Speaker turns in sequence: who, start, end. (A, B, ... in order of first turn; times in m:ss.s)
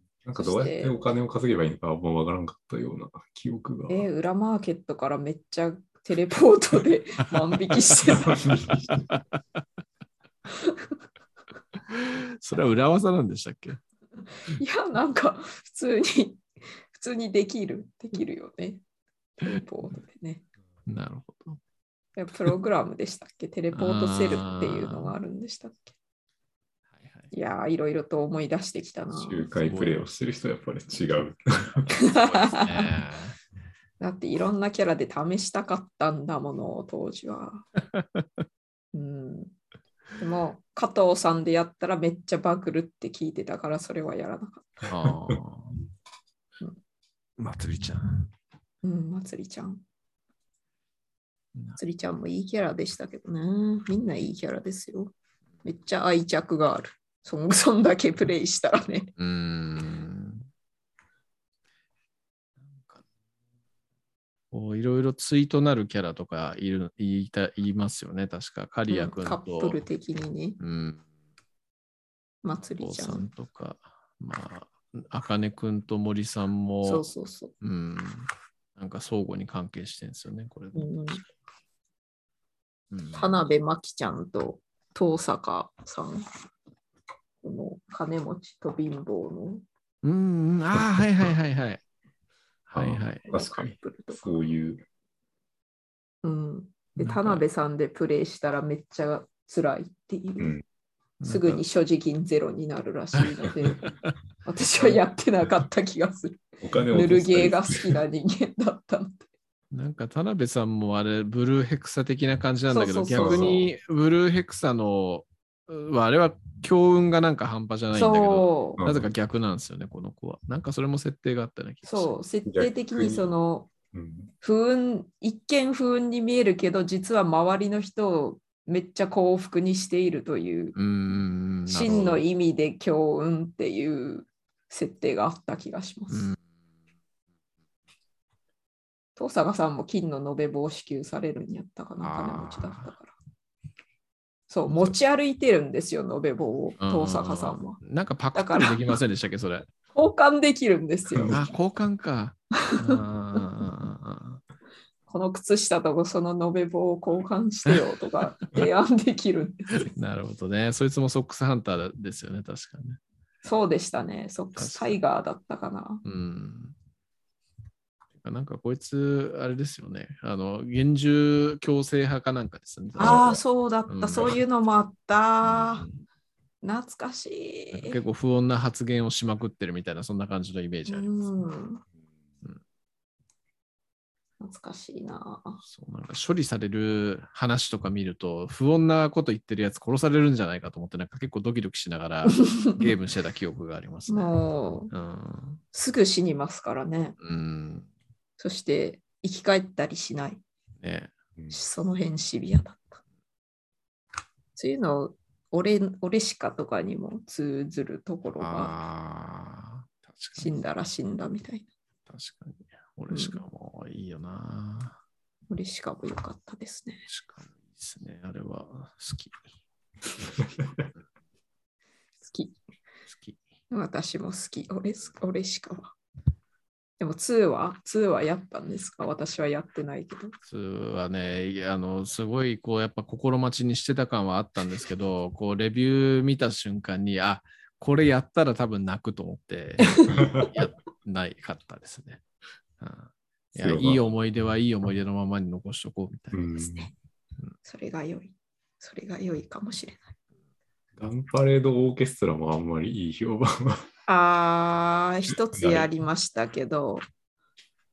0:00.2-0:04.1 A
0:00.4-0:01.0 B
0:03.9-0:08.6 B
0:08.1-0:09.1 A
0:08.9-0:09.2 C
0:10.6-0:10.9 B
0:11.9-0:13.8 C
0:14.5-0:18.8 B
0:19.4-0:20.4 B
0:20.9-0:21.6 C
0:22.2-0:25.9 B
0:23.7-0:25.1 C
0:27.0-0:27.3 C
0:27.3-0:29.5 B
0:29.1-0:31.9 A
0:29.6-0:30.1 C
0:31.9-0:32.8 B
0:32.1-0:33.4 C
0:34.0-0:37.7 B
0:38.9-0:39.5 B
0:40.2-0:44.9 B
0:44.9-0:45.8 C
0:47.4-0:48.3 C
0:48.8-0:49.8 B
0:51.8-0:55.1 B
0:55.6-0:59.1 B
0:59.2-1:00.5 C
1:02.6-1:03.0 C
1:04.5-1:09.8 C
1:08.9-1:10.6 B
1:10.6-1:11.0 C
1:12.4-1:13.3 B
1:12.8-1:17.0 C
1:16.8-1:17.5 B
1:17.6-1:21.3 C
1:20.7-1:21.2 B
1:22.9-1:23.3 C
1:23.1-1:26.2 B
1:27.4-1:29.6 B
1:30.0-1:31.8 C
1:32.7-1:33.2 C
1:32.7-1:34.8 A
1:33.2-1:34.3 B
1:36.2-1:40.6 B
1:37.0-1:37.4 C
1:41.2-1:41.6 C
1:41.3-1:43.8 B
1:43.2-1:43.9 C
1:44.4-1:49.3 B
1:46.6-1:48.0 A
1:49.7-2:02.1 C
1:52.7-1:53.7 B
1:53.1-1:53.7 A
1:57.9-1:58.8 B
1:58.8-1:59.1 A
2:01.8-2:03.7 B
2:02.5-2:03.3 A
2:03.9-2:04.3 A
2:04.4-2:10.8 B
2:10.8-2:12.2 C
2:11.7-2:16.3 B
2:11.9-2:12.2 A
2:16.1-2:16.4 C
2:19.2-2:23.2 B
2:22.0-2:22.9 C
2:24.5-2:27.8 B
2:24.7-2:24.9 C
2:26.8-2:29.7 C
2:28.3-2:28.8 B
2:29.9-2:31.6 B
2:31.1-2:31.4 A
2:31.3-2:34.4 C
2:32.7-2:33.0 B
2:35.1-2:39.9 B
2:39.8-2:43.0 C
2:43.4-2:46.0 B
2:44.6-2:45.0 C
2:46.0-2:46.8 C
2:48.2-2:54.4 C
2:53.0-2:55.8 B
2:55.4-2:56.0 C
2:56.6-2:58.0 B
2:57.7-3:01.1 C
3:00.9-3:01.8 B
3:04.4-3:05.6 B
3:05.6-3:14.3 C
3:14.1-3:14.9 B
3:14.9-3:15.6 C
3:15.7-3:17.2 B
3:17.2-3:17.9 C
3:18.4-3:20.4 B
3:20.8-3:21.1 C
3:21.5-3:23.0 B
3:24.6-3:28.8 B
3:28.4-3:30.5 C
3:30.4-3:31.7 B
3:32.1-3:35.0 C
3:33.1-3:33.4 B
3:35.5-3:37.0 B
3:37.1-3:39.4 C
3:42.3-3:42.6 B
3:43.1-3:43.4 C
3:43.7-3:45.9 B
3:47.0-3:50.3 B
3:50.5-4:02.2 C
4:00.1-4:00.5 A
4:02.8-4:06.6 C
4:03.6-4:04.0 A
4:06.3-4:06.9 A
4:06.6-4:06.9 B
4:07.6-4:10.1 B
4:11.0-4:13.8 A
4:14.1-4:17.0 B
4:15.5-4:15.9 A